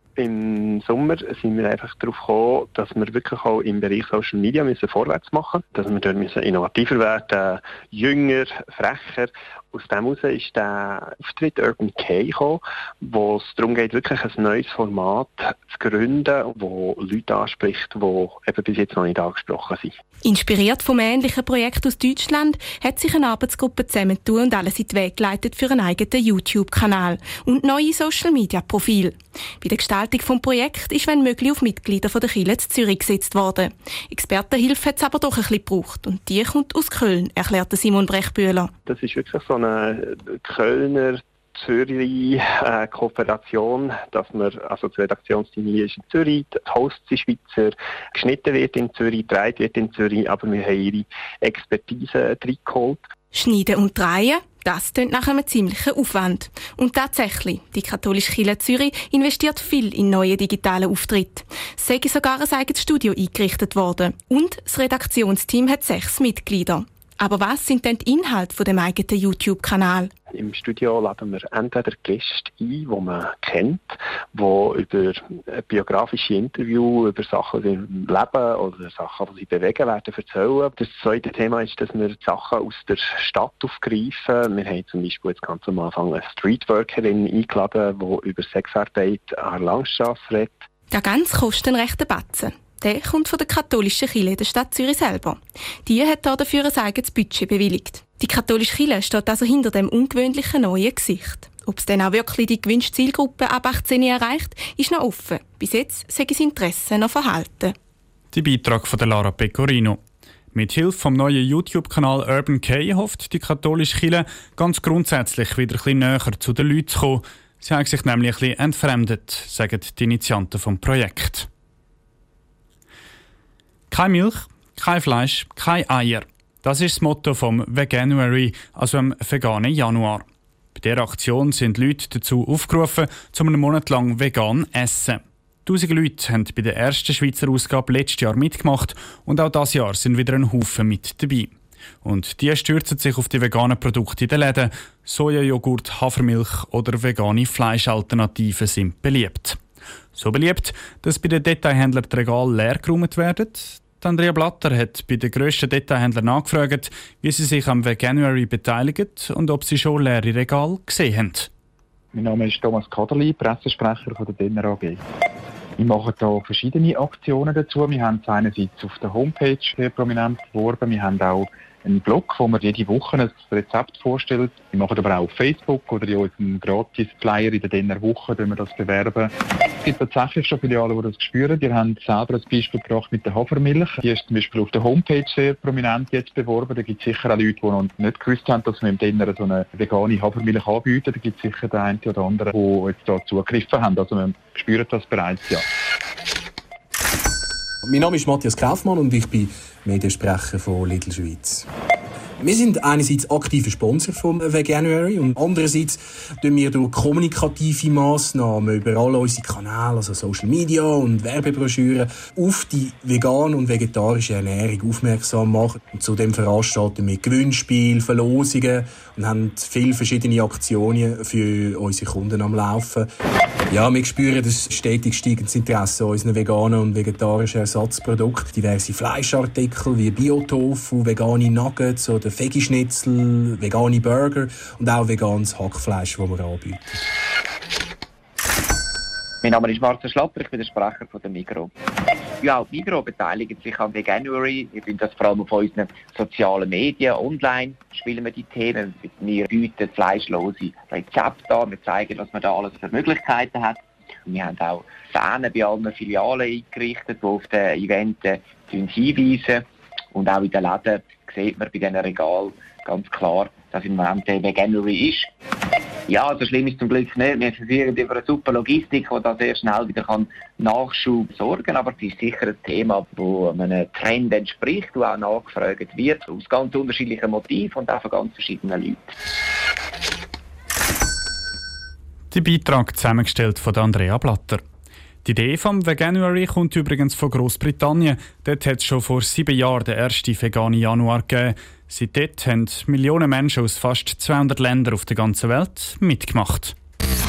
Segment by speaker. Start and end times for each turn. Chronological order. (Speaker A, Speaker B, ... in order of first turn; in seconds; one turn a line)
Speaker A: 0.2-19.9
Speaker B: 20.2-38.7
Speaker A: 38.9-53.0
Speaker B: 53.3-70.1
Speaker A: 70.3-90.7
Speaker B: 90.9-107.8
Speaker C: 108.3-110.0
Speaker C: 110.5-121.5
Speaker C: 123.9-149.6
Speaker C: 150.1-161.5
Speaker D: 162.1-165.0
Speaker D: 165.8-195.6
Speaker E: 197.9-201.7
Speaker E: 202.4-223.1
Speaker E: 223.7-237.1
Speaker F: 239.4-241.7
Speaker F: 242.4-265.3
Speaker F: 266.1-279.1
Speaker C: 282.3-284.6
Speaker C: 285.2-296.8